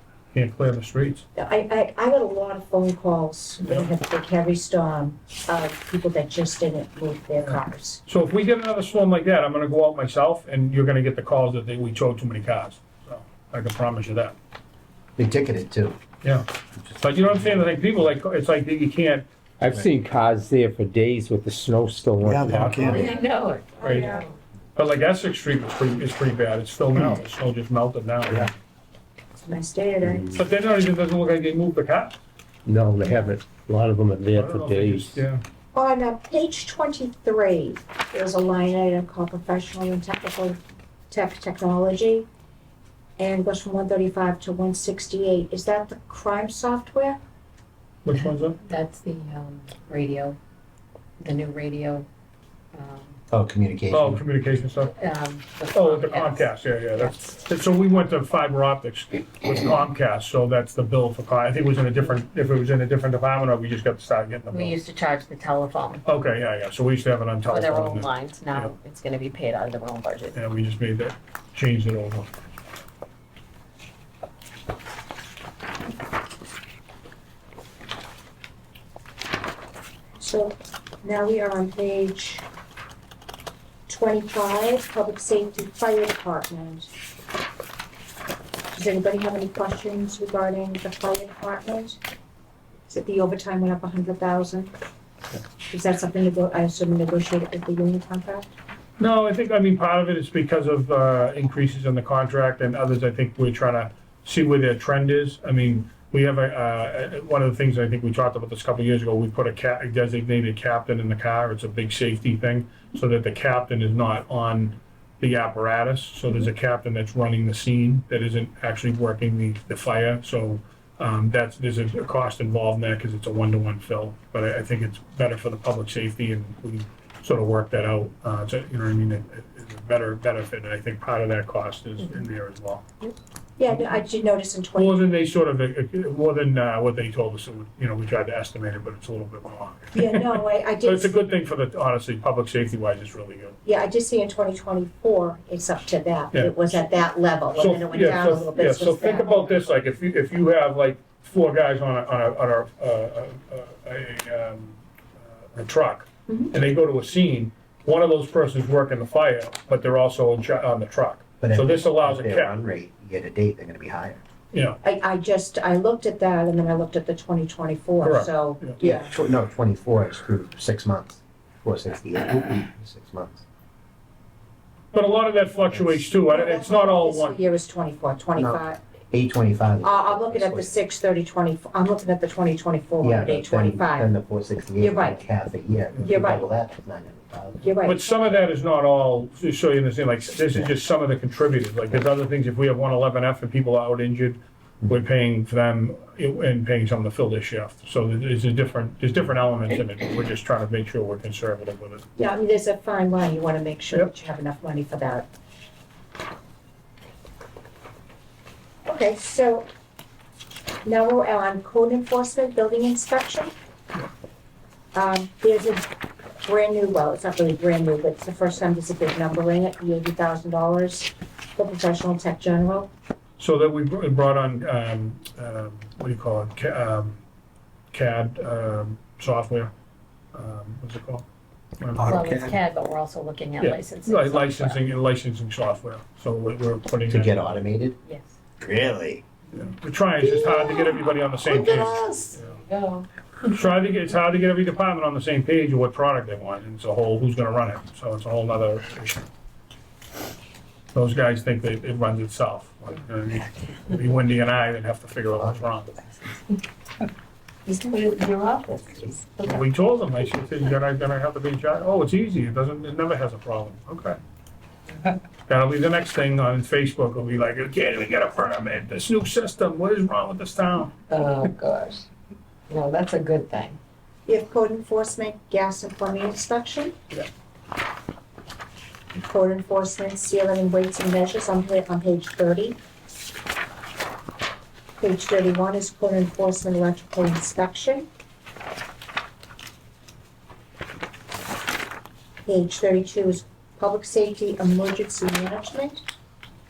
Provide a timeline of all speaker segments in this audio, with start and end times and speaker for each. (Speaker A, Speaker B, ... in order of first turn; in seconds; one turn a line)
Speaker A: 0.3-1.2
Speaker B: 1.4-8.0
Speaker A: 7.5-14.3
Speaker C: 15.2-16.0
Speaker A: 16.2-16.5
Speaker A: 17.0-19.3
Speaker D: 19.6-23.1
Speaker C: 22.2-23.1
Speaker A: 22.5-23.0
Speaker E: 22.8-24.3
Speaker A: 23.8-24.2
Speaker B: 23.8-24.2
Speaker A: 24.8-28.5
Speaker B: 29.4-30.4
Speaker A: 30.3-32.1
Speaker D: 32.7-35.3
Speaker A: 34.4-35.4
Speaker B: 35.7-40.6
Speaker B: 41.1-42.3
Speaker B: 43.2-47.2
Speaker A: 48.0-48.6
Speaker E: 48.1-50.4
Speaker E: 51.2-52.1
Speaker E: 52.7-53.2
Speaker C: 53.3-54.2
Speaker A: 53.9-54.9
Speaker E: 54.9-57.4
Speaker A: 55.7-64.8
Speaker E: 64.5-66.0
Speaker A: 66.1-68.7
Speaker E: 67.5-70.4
Speaker A: 70.3-72.4
Speaker B: 80.2-82.5
Speaker B: 83.9-86.9
Speaker B: 88.7-92.0
Speaker B: 92.9-94.7
Speaker B: 95.7-98.5
Speaker A: 99.0-132.8
Speaker B: 133.6-135.0
Speaker A: 134.8-143.6
Speaker B: 139.9-141.2
Speaker B: 143.7-149.6
Speaker A: 146.3-146.8
Speaker A: 147.5-154.8
Speaker A: 155.5-162.5
Speaker C: 161.4-164.2
Speaker A: 164.5-164.8
Speaker B: 164.8-169.1
Speaker A: 168.0-168.8
Speaker C: 168.8-173.4
Speaker A: 174.9-177.4
Speaker B: 176.1-178.8
Speaker C: 178.4-180.7
Speaker B: 179.8-184.1
Speaker C: 183.0-187.7
Speaker B: 184.8-185.2
Speaker B: 186.0-186.5
Speaker B: 187.6-188.0
Speaker A: 187.8-202.1
Speaker B: 202.2-205.3
Speaker B: 208.9-209.7
Speaker B: 210.8-213.5
Speaker B: 214.9-215.9
Speaker B: 216.4-222.9
Speaker A: 223.4-227.2
Speaker A: 227.9-229.7
Speaker A: 230.3-231.2
Speaker A: 231.8-232.2
Speaker C: 232.0-232.5
Speaker E: 232.0-234.8
Speaker A: 233.6-237.6
Speaker C: 237.1-238.0
Speaker E: 238.1-238.4
Speaker C: 238.6-239.2
Speaker A: 239.5-242.6
Speaker E: 241.5-243.1
Speaker A: 243.5-249.3
Speaker A: 250.9-256.0
Speaker E: 257.7-259.6
Speaker A: 259.4-264.2
Speaker A: 265.5-270.9
Speaker E: 271.1-272.1
Speaker E: 272.7-273.8
Speaker B: 274.3-277.0
Speaker B: 279.1-282.8
Speaker B: 285.0-288.1
Speaker B: 292.4-296.0